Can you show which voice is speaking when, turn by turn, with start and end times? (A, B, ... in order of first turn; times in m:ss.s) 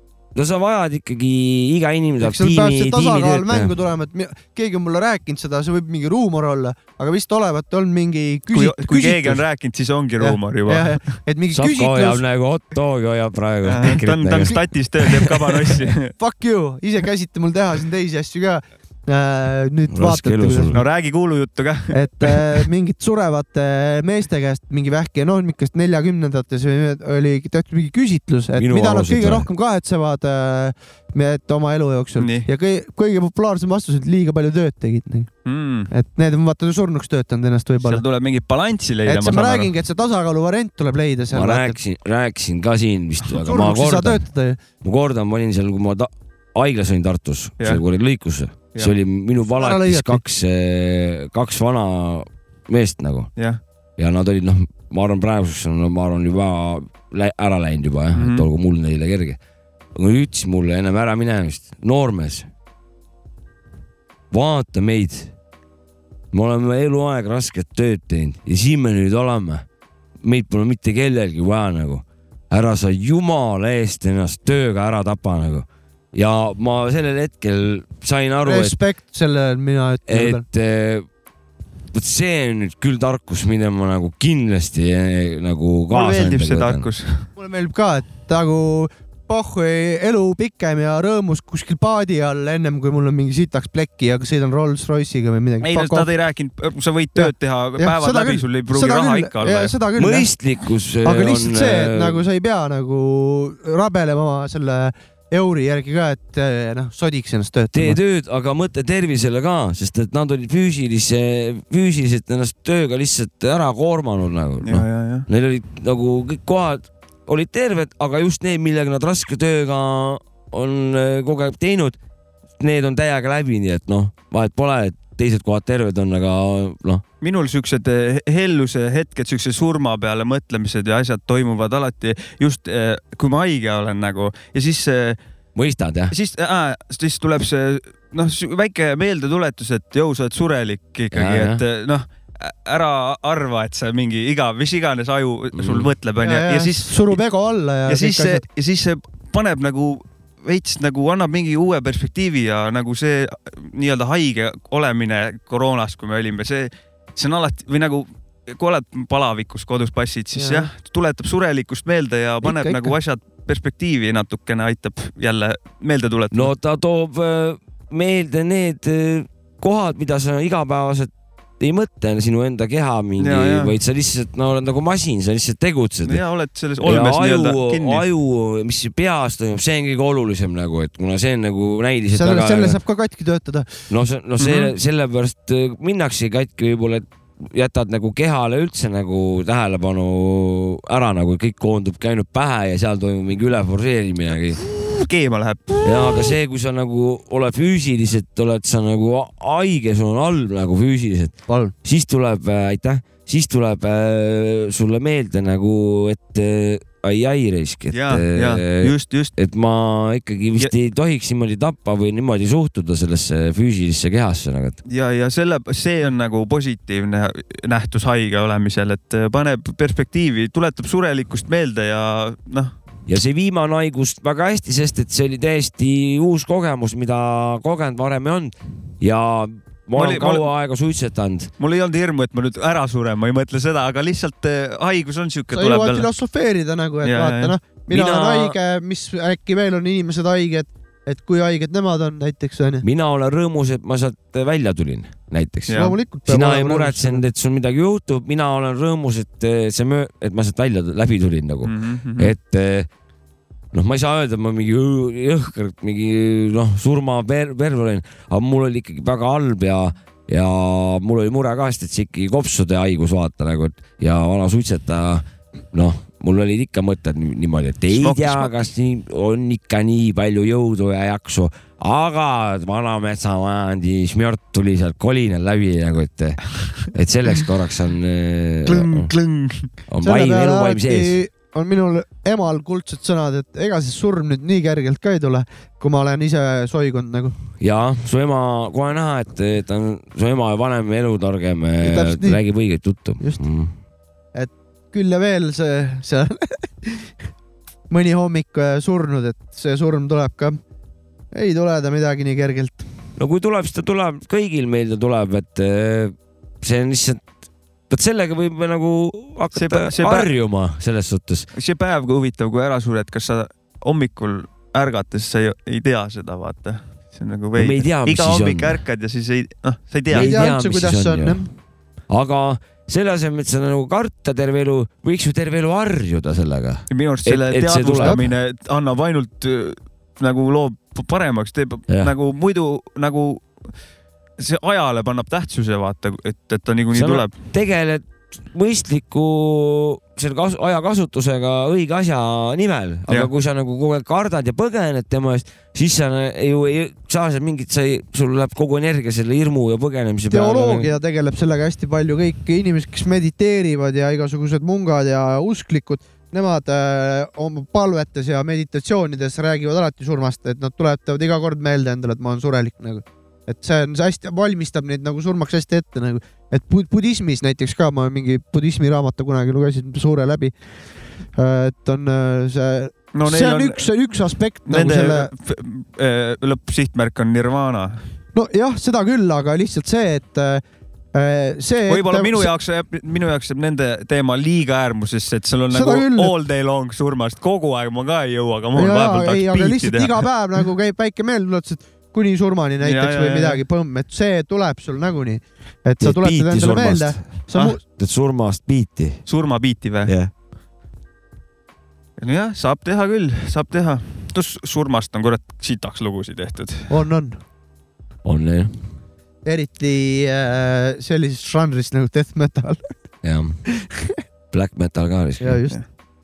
0:00.4-0:03.7 A
0:02.2-0:09.4 B
0:08.5-0:11.0 C
0:10.2-0:12.2 B
0:11.5-0:14.6 A
0:13.6-0:16.1 C
0:16.2-0:20.8 B
0:19.9-0:20.8 A
0:20.7-0:22.6 C
0:21.9-0:35.3 B
0:28.6-0:29.5 A
0:32.2-0:32.5 C
0:35.5-0:35.9 C
0:35.9-0:38.0 B
0:37.8-0:39.7 C
0:39.1-0:41.8 B
0:41.3-0:44.2 A
0:43.3-0:44.6 B
0:44.8-0:53.3 A
0:49.6-0:50.2 B
0:54.0-0:59.4 A
0:58.2-0:58.4 C
1:00.0-1:02.5 A
1:04.3-1:05.3 A
1:06.3-1:09.6 A
1:10.2-1:18.8 A
1:18.4-1:20.4 B
1:20.1-1:21.1 A
1:21.9-1:26.9 A
1:25.9-1:27.3 C
1:27.4-1:36.1 B
1:35.6-1:39.7 C
1:37.2-1:40.3 B
1:40.0-1:42.2 A
1:41.0-1:48.0 B
1:47.7-2:02.0 A
1:54.6-1:55.3 C
2:02.6-2:07.0 A
2:07.2-2:15.2 C
2:15.6-2:16.1 A
2:16.1-2:27.2 C
2:21.1-2:21.6 A
2:25.5-2:25.9 A
2:26.2-2:28.4 B
2:27.9-2:46.5 C
2:40.4-2:40.7 B
2:42.4-2:42.9 B
2:46.3-2:56.2 A
2:53.2-2:53.7 C
2:56.0-2:58.0 C
2:56.8-3:02.8 A
3:02.1-3:03.7 B
3:03.9-3:14.6 A
3:04.4-3:04.7 C
3:14.6-3:16.1 C
3:15.8-3:21.3 A
3:21.5-3:21.7 B
3:21.8-3:34.8 A
3:27.9-3:29.3 C
3:34.9-3:42.7 C
3:43.1-3:51.5 A
3:50.0-3:50.5 C
3:51.6-3:56.1 C
3:55.5-4:02.8 B
3:57.0-3:57.6 C
3:57.9-3:58.6 A
4:02.8-4:12.9 A
4:05.7-4:06.0 C
4:05.8-4:07.2 B
4:11.6-4:12.3 C
4:13.7-4:39.1 A
4:27.9-4:28.6 C
4:38.7-4:39.7 C
4:39.9-4:41.2 A
4:40.0-4:47.4 B
4:47.6-4:53.7 A
4:51.8-4:52.4 B
4:54.3-4:57.2 B
4:57.9-5:00.6 B
5:01.3-5:02.9 B
5:03.2-5:07.2 A
5:07.9-5:11.5 A
5:09.5-5:10.3 C
5:11.6-5:20.4 C
5:17.6-5:18.8 A
5:20.1-5:21.4 A
5:20.1-5:21.5 B
5:22.1-5:28.2 A
5:26.9-5:33.7 C
5:34.4-5:37.3 C
5:37.0-5:50.9 A
5:50.3-6:10.5 B
6:11.3-6:15.3 B
6:13.2-6:13.9 C
6:14.7-6:18.0 C
6:18.3-6:22.5 B
6:21.9-6:30.3 C
6:25.7-6:26.3 B
6:28.8-6:37.8 B
6:32.8-6:33.6 C
6:36.0-6:37.2 A
6:38.0-6:39.3 A
6:39.3-6:40.1 C
6:40.0-6:40.3 A
6:42.2-6:47.0 C
6:46.9-6:47.4 B
6:48.2-6:48.7 A
6:49.4-6:52.9 B
6:53.2-6:53.6 A
6:53.7-6:54.2 B
6:54.5-6:55.6 A
6:55.4-6:55.8 B